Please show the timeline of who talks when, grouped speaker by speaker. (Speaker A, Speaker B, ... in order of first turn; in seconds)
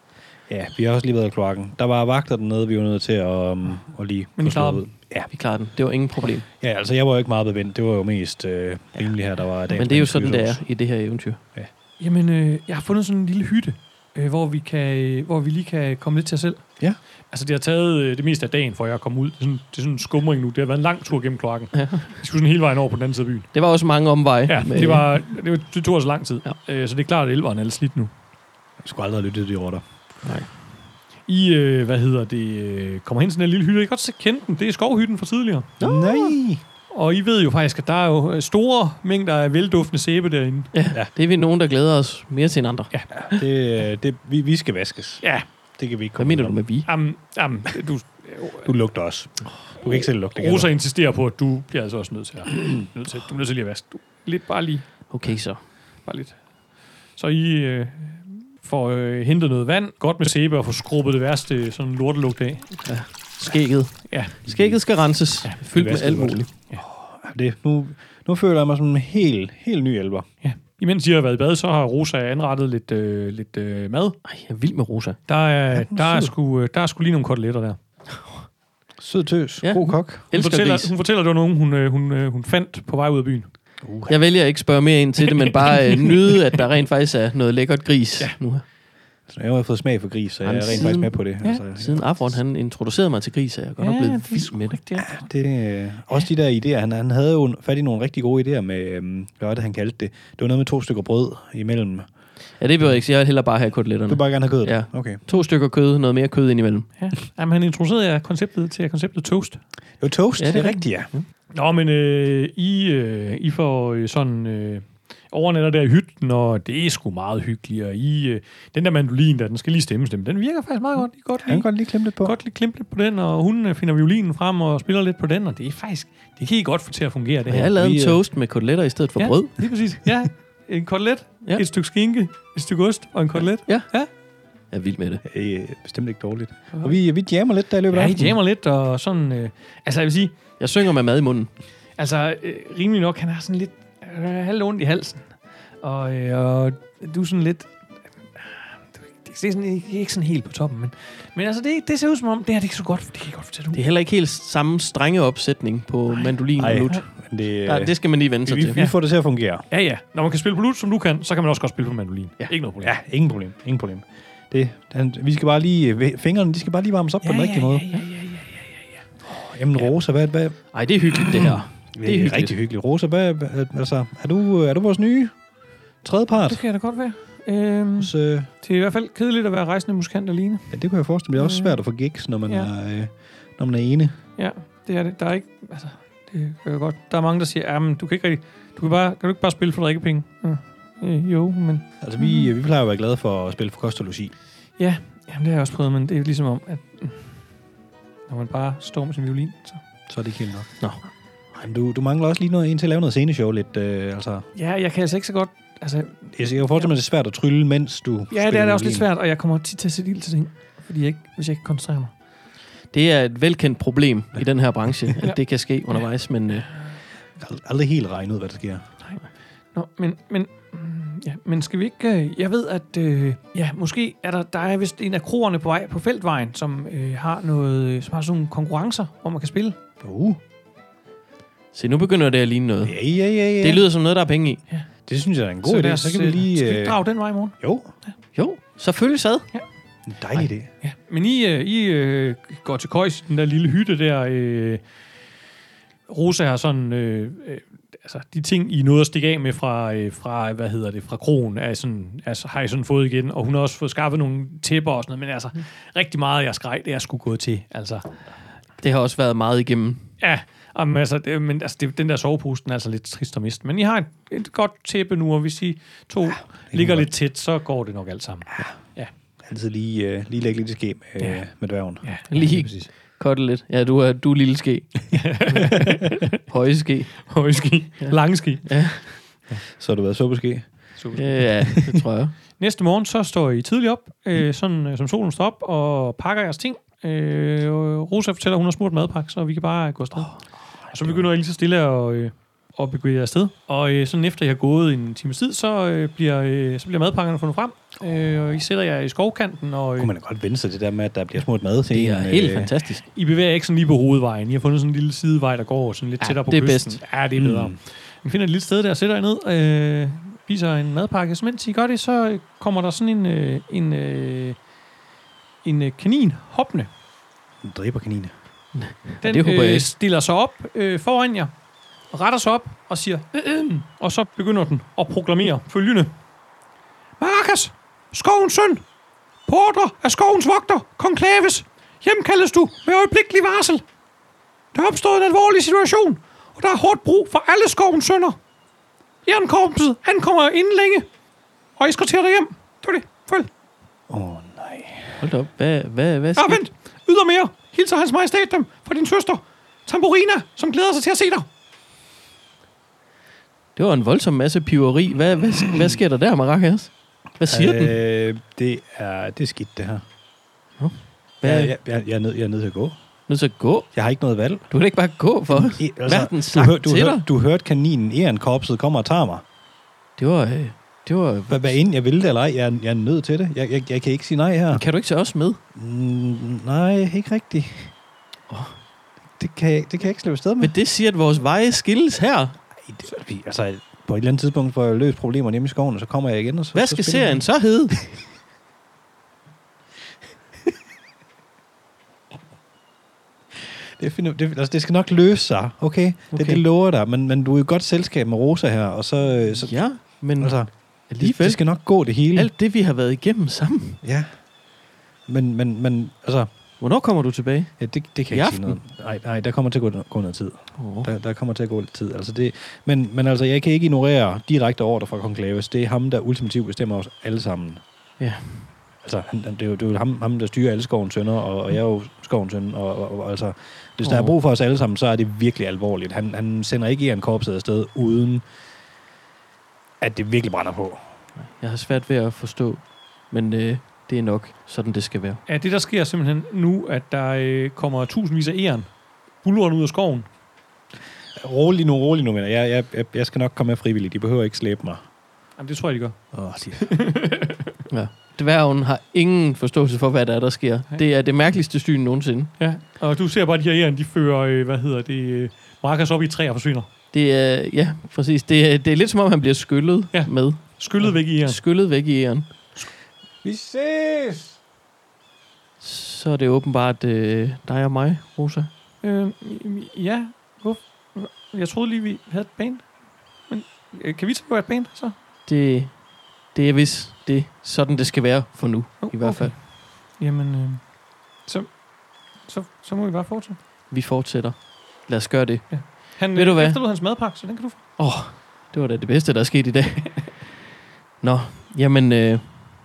Speaker A: 0.5-5.3, 6.5-10.6, 28.8-29.9, 35.8-36.6, 43.2-45.2, 45.8-46.6, 48.6-50.7, 64.5-64.8, 65.7-70.3, 75.7-76.3, 79.0-80.3, 83.8-84.2, 89.3-92.2, 95.0-102.1, 104.1-105.2, 110.0-111.1, 121.5-122.4, 127.5-128.2, 135.2-138.4, 156.6-157.9, 158.4-159.7, 162.8-168.0, 169.2-170.6, 171.1-175.4, 176.0-176.6, 178.0-178.5, 180.7-184.2, 192.0-194.3, 200.1-200.7, 201.6-204.4, 206.3-209.1, 217.4-218.8, 230.0-230.4, 232.8-233.8, 235.1-237.0, 237.6-237.9, 240.1-240.7, 266.7-267.1, 269.4-272.8, 279.8-280.9, 290.9-291.3, 300.0-302.7, 307.4-307.8, 317.6-318.3, 344.1-345.2, 357.5-360.0, 361.4-362.9, 363.9-364.7, 365.5-369.4, 371.5-374.8, 375.8-377.9, 379.4-380.7, 382.8-387.4, 393.6-402.5, 404.0-404.3, 405.3-406.5, 407.8-417.8, 419.0-428.4, 430.0-431.0, 441.4-445.0, 446.3-446.9, 463.4-464.5
Speaker B: 4.4-4.8, 12.0-16.6, 17.3-23.5, 24.5-28.1, 31.3-35.8, 36.9-40.7, 42.9-43.4, 46.9-48.7, 49.9-54.9, 56.0-56.4, 57.1-62.8, 64.1-64.3, 70.4-74.2, 75.3-77.8, 80.3-83.5, 85.2-86.4, 93.8-95.3, 107.0-109.6, 111.5-127.7, 129.2-134.1, 137.9-140.3, 142.0-145.3, 145.8-147.7, 148.3-153.8, 159.7-162.9, 167.2-168.9, 176.5-180.8, 181.4-181.8, 184.4-192.5, 194.8-197.2, 198.3-199.8, 204.6-206.7, 208.3-212.1, 219.7-229.8, 235.6-237.6, 240.8-244.8, 246.1-258.1, 260.2-269.1, 271.2-271.4, 272.0-272.8, 275.1-276.4, 277.2-279.6, 281.0-281.7, 282.6-300.1, 303.1-314.6, 315.6-316.9, 319.2-321.5, 322.1-326.1, 327.2-328.8, 329.5-333.8, 334.7-338.4, 339.3-341.1, 341.8-343.5, 346.4-351.5, 435.5-438.9, 439.4-440.3, 445.6-446.2, 446.8-447.8, 452.6-456.9, 460.1-461.6, 469.0-472.9, 473.5-475.1, 479.0-480.8, 481.4-481.8, 482.4-483.6, 485.7-487.8
Speaker C: 5.3-6.5, 9.8-11.4, 21.7-22.1, 23.5-25.1, 35.8-36.4, 40.7-42.9, 46.2-46.9, 55.1-55.6, 62.8-66.5, 74.2-75.2, 79.6-80.9, 84.1-88.6, 90.5-91.2, 91.7-94.8, 102.6-106.9, 110.4-111.2, 127.5-129.5, 134.7-135.2, 140.6-141.5, 153.7-157.0, 157.7-158.8, 170.7-172.5, 212.9-216.7, 231.7-233.0, 233.6-234.6, 238.3-239.5, 258.8-260.0, 272.3-277.2, 278.0-279.1, 281.1-282.4, 301.9-303.1, 306.2-307.0, 318.8-319.9, 345.2-346.6, 353.8-357.9, 360.8-361.7, 363.3-363.9, 364.7-367.2, 370.2-371.8, 374.7-375.6, 378.5-378.8, 380.6-382.6, 386.8-388.0, 396.3-396.6, 399.6-401.7, 402.3-404.0, 406.8-408.8, 410.8-411.1, 418.2-418.7, 424.0-424.3, 431.6-435.4, 447.9-452.5, 457.1-462.6, 465.8-468.7, 475.5-476.0, 476.5-479.5, 483.9-486.8, 488.0-490.2, 491.2-492.6